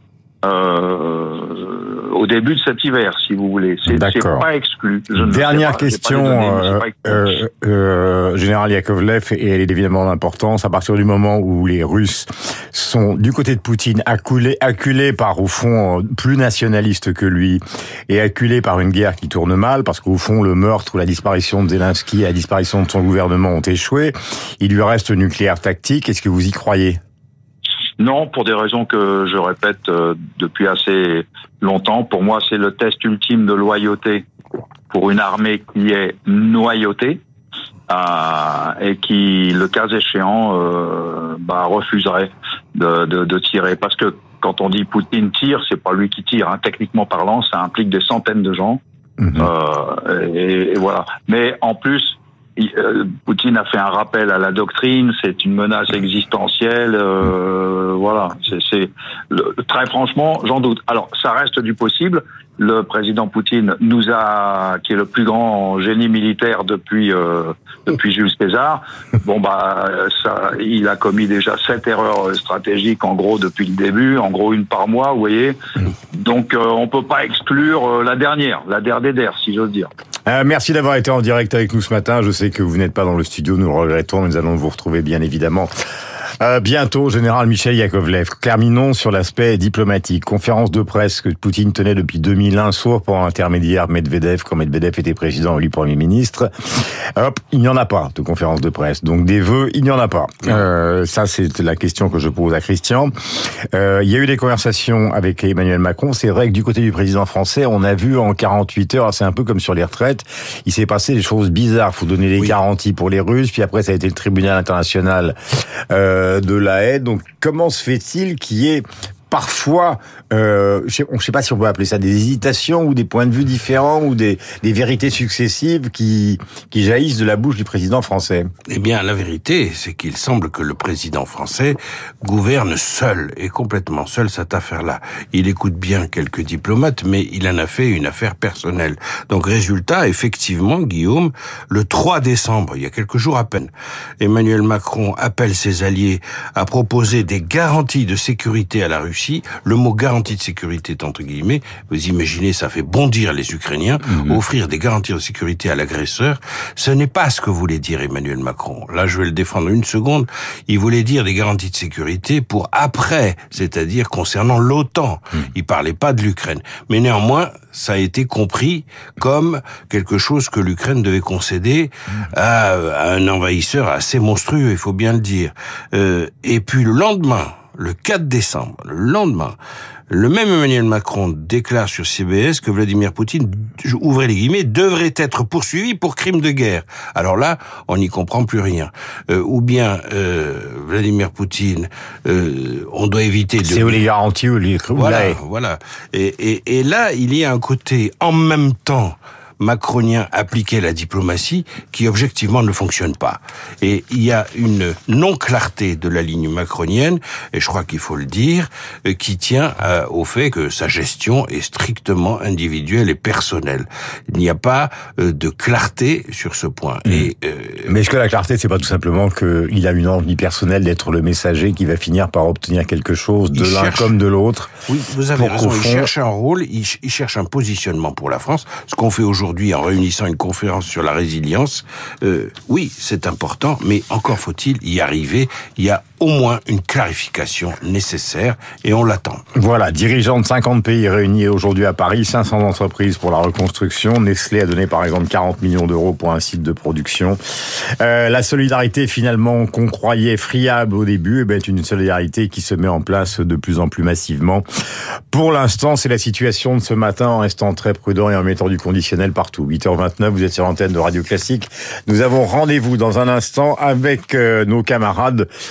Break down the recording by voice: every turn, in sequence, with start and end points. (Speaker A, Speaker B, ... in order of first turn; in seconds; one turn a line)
Speaker A: 0.4-7.4
Speaker B: 3.9-4.5
Speaker B: 5.2-27.0
Speaker A: 28.0-34.2
Speaker A: 34.9-37.2
Speaker A: 37.9-48.8
Speaker A: 49.3-75.6
Speaker A: 76.1-79.9
Speaker B: 80.2-85.7
Speaker B: 86.4-103.1
Speaker B: 103.7-115.3
Speaker B: 115.9-128.5
Speaker C: 128.7-179.6
Speaker C: 180.1-194.0
Speaker B: 193.6-195.4
Speaker C: 194.9-217.9
Speaker B: 217.8-224.8
Speaker C: 223.5-224.1
Speaker C: 224.9-239.4
Speaker B: 225.3-226.1
Speaker B: 239.5-254.6
Speaker B: 255.3-265.5